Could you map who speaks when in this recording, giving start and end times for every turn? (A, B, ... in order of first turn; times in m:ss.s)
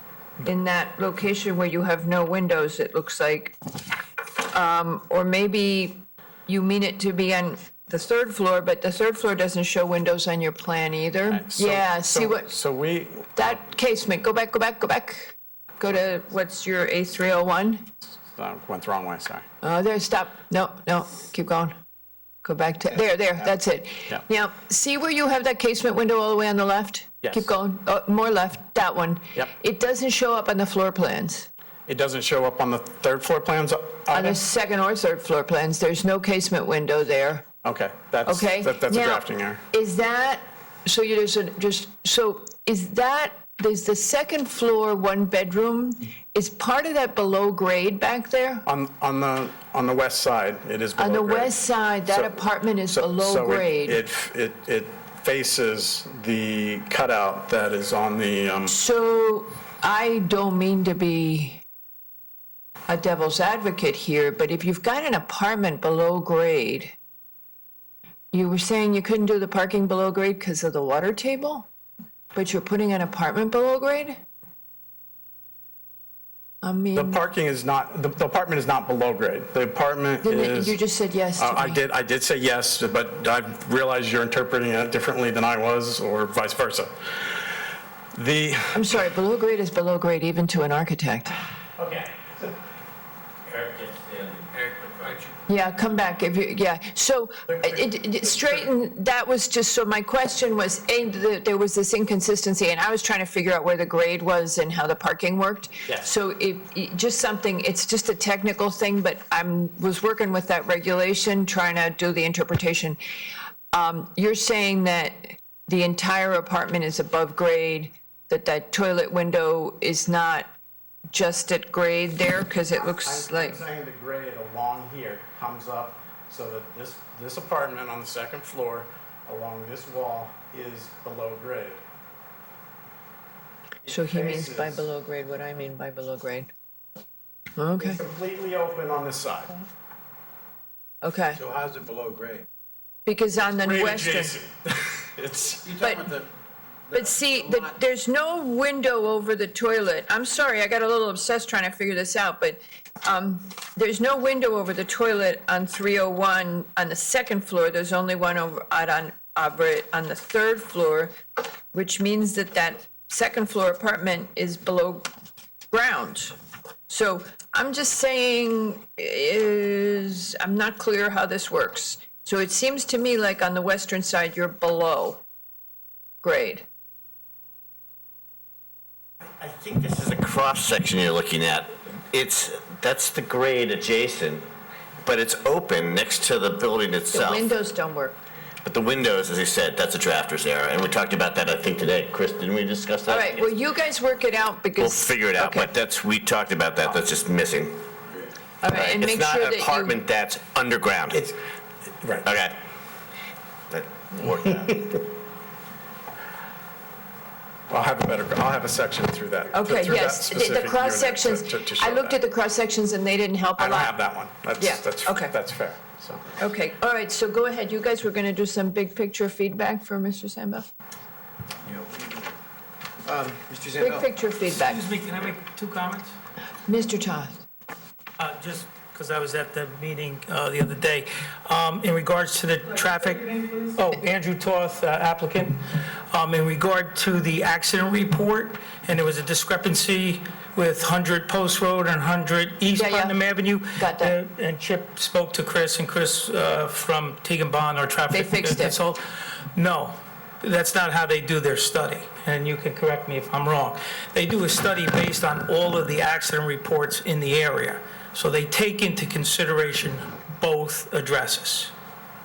0:00.4-0:03.6 A
0:04.4-0:12.5 A
0:11.3-0:13.5 B
0:13.4-0:17.9 A
0:18.3-0:19.4 B
0:19.6-0:21.8 A
0:22.4-0:31.5 A
0:27.2-0:27.5 B
0:31.9-0:34.4 B
0:34.1-0:37.5 A
0:37.6-0:39.6 B
0:38.3-0:48.7 A
0:48.7-0:51.6 B
0:51.0-0:54.0 A
0:52.1-0:58.8 B
0:58.7-1:01.6 A
1:02.9-1:07.0 A
1:08.3-1:11.7 A
1:12.3-1:14.2 A
1:16.6-1:17.2 A
1:17.0-1:20.8 B
1:20.2-1:21.8 A
1:21.4-1:27.5 B
1:28.1-1:29.0 B
1:28.7-1:31.4 A
1:31.8-1:32.4 C
1:33.5-1:35.2 C
1:35.5-1:53.0 A
1:37.5-1:38.7 B
1:53.7-2:00.5 A
2:01.1-2:03.6 A
2:02.8-2:11.8 B
2:13.9-2:14.8 B
2:13.9-2:16.5 A
2:17.6-2:18.0 A
2:17.8-2:19.6 B
2:21.0-2:21.4 A
2:21.4-2:22.5 D
2:23.1-2:24.3 A
2:23.4-2:25.7 B
2:25.6-2:26.3 D
2:25.8-2:26.1 A
2:26.9-2:27.7 D
2:26.9-2:41.2 A
2:41.7-2:45.1 A
2:45.7-2:46.4 A
2:46.9-2:55.2 A
2:56.2-2:56.7 A
2:59.4-3:04.4 C
3:05.0-3:07.5 C
3:07.1-3:08.2 A
3:08.6-3:13.5 C
3:13.1-3:15.7 A
3:14.8-3:17.9 C
3:18.6-3:20.0 A
3:18.7-3:21.2 C
3:21.1-3:21.4 B
3:22.0-3:22.3 B
3:22.2-3:22.6 C
3:23.7-3:25.1 C
3:27.7-3:32.2 B
3:29.5-3:33.9 A
3:33.6-3:36.2 B
3:34.6-3:35.3 A
3:36.4-3:40.7 A
3:41.6-3:42.1 D
3:43.0-3:44.1 D
3:43.8-3:44.9 A
3:44.5-3:46.1 E
3:46.7-3:47.4 A
3:48.2-3:55.6 E
3:56.1-4:09.0 E
4:02.8-4:03.2 A
4:03.8-4:04.2 A
4:08.1-4:08.8 A
4:09.6-4:21.7 E